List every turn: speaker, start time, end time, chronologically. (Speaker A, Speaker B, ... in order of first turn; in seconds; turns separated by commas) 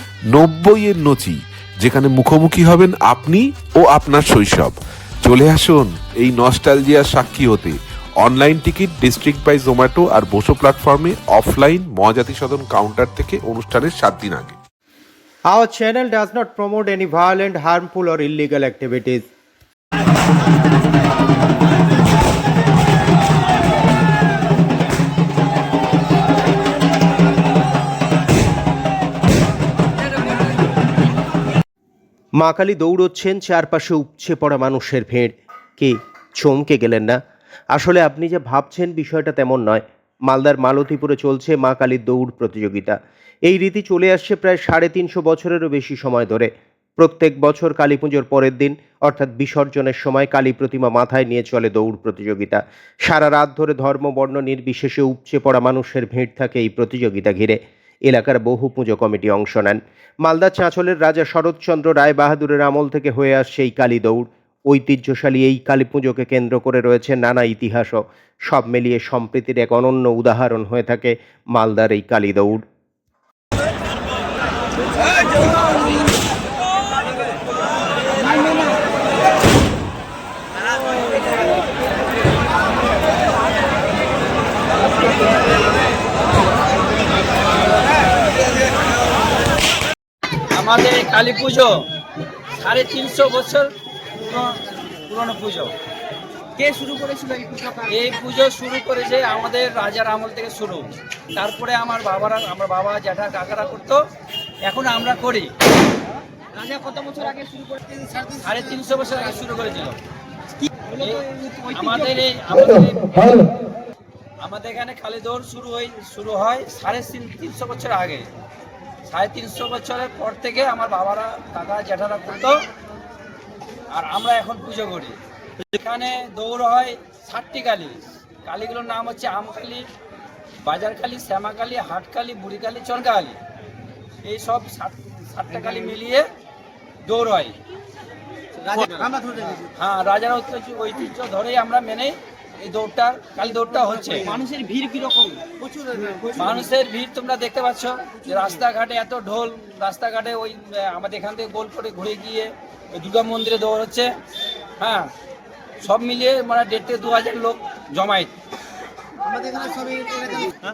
Speaker A: 0.3-14.6, Speaker B: 15.5-19.2, Speaker B: 32.4-37.2, Speaker B: 37.7-72.6, Speaker C: 85.0-85.2, Speaker C: 90.5-91.7, Speaker C: 92.6-95.7, Speaker D: 96.6-98.0, Speaker C: 97.9-104.0, Speaker C: 104.6-105.5, Speaker D: 106.6-107.8, Speaker C: 108.4-110.0, Speaker D: 110.7-112.0, Speaker C: 110.9-113.5, Speaker C: 114.4-118.3, Speaker C: 119.1-122.6, Speaker C: 123.9-125.2, Speaker C: 125.7-129.9, Speaker C: 130.6-133.4, Speaker C: 134.2-136.3, Speaker C: 137.1-137.6, Speaker D: 138.7-139.6, Speaker C: 138.7-139.1, Speaker C: 139.7-144.3, Speaker D: 144.2-146.5, Speaker C: 146.3-154.1, Speaker C: 154.8-155.1, Speaker C: 155.8-158.3, Speaker D: 159.7-160.2